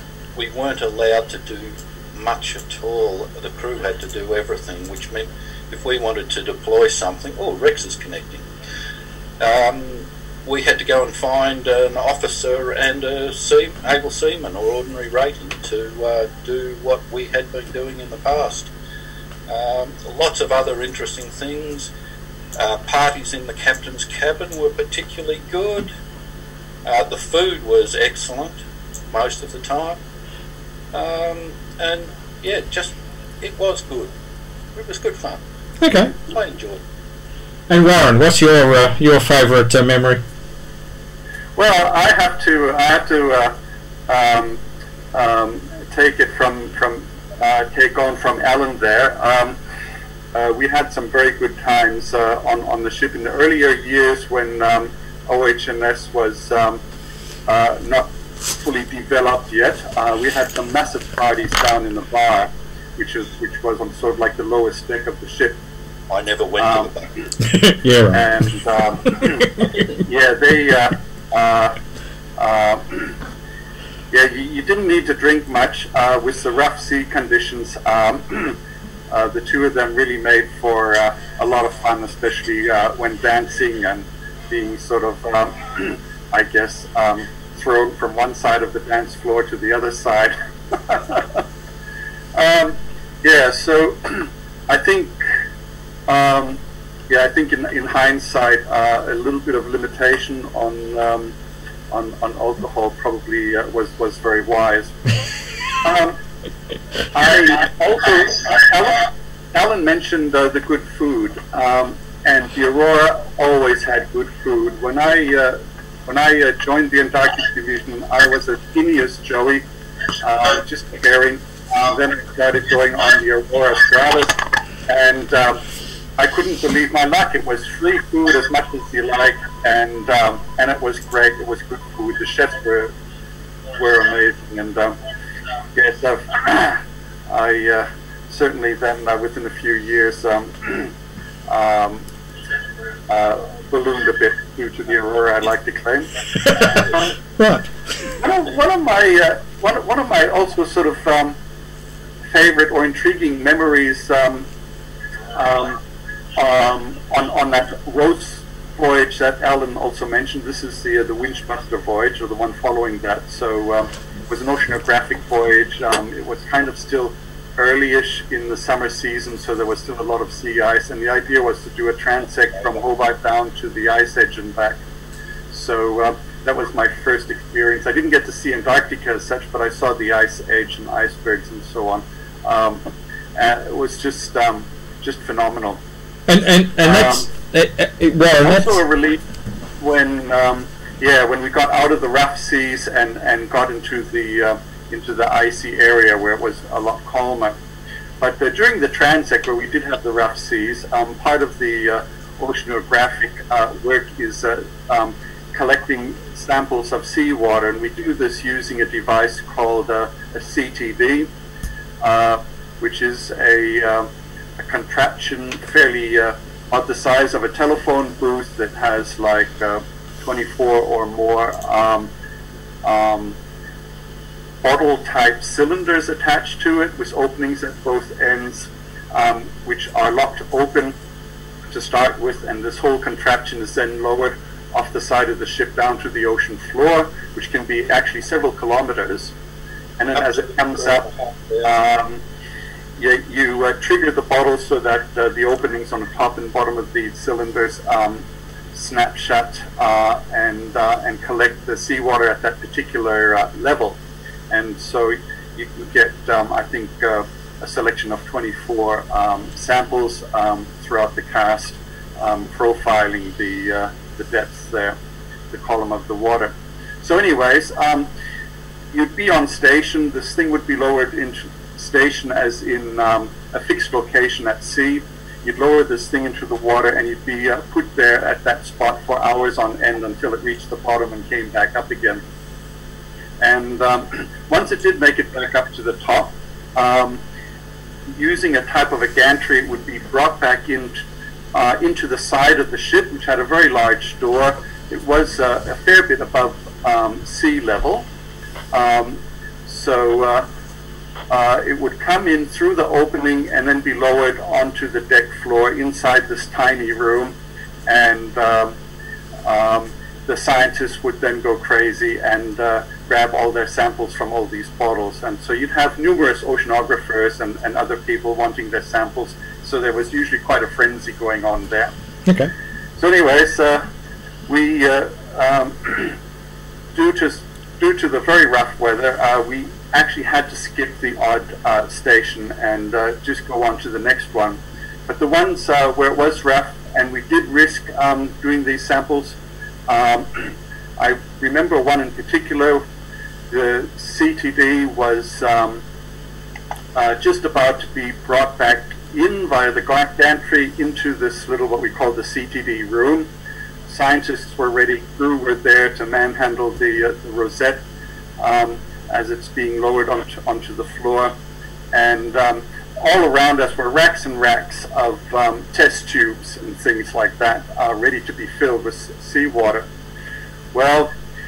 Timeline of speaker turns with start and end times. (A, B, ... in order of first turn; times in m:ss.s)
0:00.4-0:08.5 A
0:09.4-0:18.7 A
0:19.5-0:21.9 A
0:22.6-0:25.9 A
0:26.8-0:28.6 A
0:29.1-0:30.0 A
0:30.9-0:34.1 A
0:34.8-0:35.4 A
0:35.8-0:36.1 B
0:36.2-0:36.8 A
0:37.7-0:40.2 B
0:41.6-0:43.6 C
0:44.1-0:44.6 C
0:45.1-0:49.6 C
0:50.3-0:56.8 C
0:57.5-1:05.6 C
1:06.1-1:07.1 A
1:06.6-1:06.9 C
1:07.4-1:08.5 B
1:08.1-1:11.8 C
1:12.4-1:13.2 C
1:14.1-1:18.6 C
1:19.1-1:31.4 C
1:32.4-1:35.2 C
1:36.1-1:41.4 C
1:41.9-1:45.0 C
1:45.8-1:46.2 C
1:47.1-1:59.7 C
2:00.2-2:05.6 C
2:06.2-2:12.9 C
2:13.8-2:15.0 C
2:15.8-2:20.9 C
2:21.5-2:22.0 C
2:23.1-2:27.1 C
2:27.4-2:27.7 B
2:28.2-2:31.4 C
2:32.3-2:34.5 C
2:35.4-2:35.8 C
2:36.4-2:54.8 C
2:55.5-3:02.8 C
3:03.4-3:05.8 C
3:06.3-3:08.8 B
3:06.8-3:07.3 C
3:08.4-3:09.2 C
3:09.8-3:17.6 C
3:18.2-3:31.3 C
3:32.0-3:42.1 C
3:42.8-3:43.4 C
3:44.6-3:51.0 C
3:51.7-3:59.3 C
4:00.0-4:01.1 C
4:00.2-4:01.7 A
4:01.6-4:02.2 C
4:03.0-4:08.2 C
4:08.7-4:14.0 C
4:14.5-4:25.0 C
4:25.5-4:28.1 C
4:28.9-4:42.2 C
4:43.4-4:47.2 C
4:48.2-4:51.0 C
4:51.5-4:58.1 C
4:58.7-5:00.5 C
5:01.3-5:07.4 C
5:07.9-5:08.8 C
5:09.4-5:21.9 C
5:22.3-5:22.5 B
5:23.0-5:23.9 C
5:24.5-5:26.2 C
5:27.0-5:39.4 C
5:39.9-5:42.8 C
5:43.5-5:45.8 C
5:47.0-5:53.3 C
5:53.9-5:57.8 C
5:58.4-6:01.3 C
6:01.9-6:09.9 C
6:10.7-6:11.1 C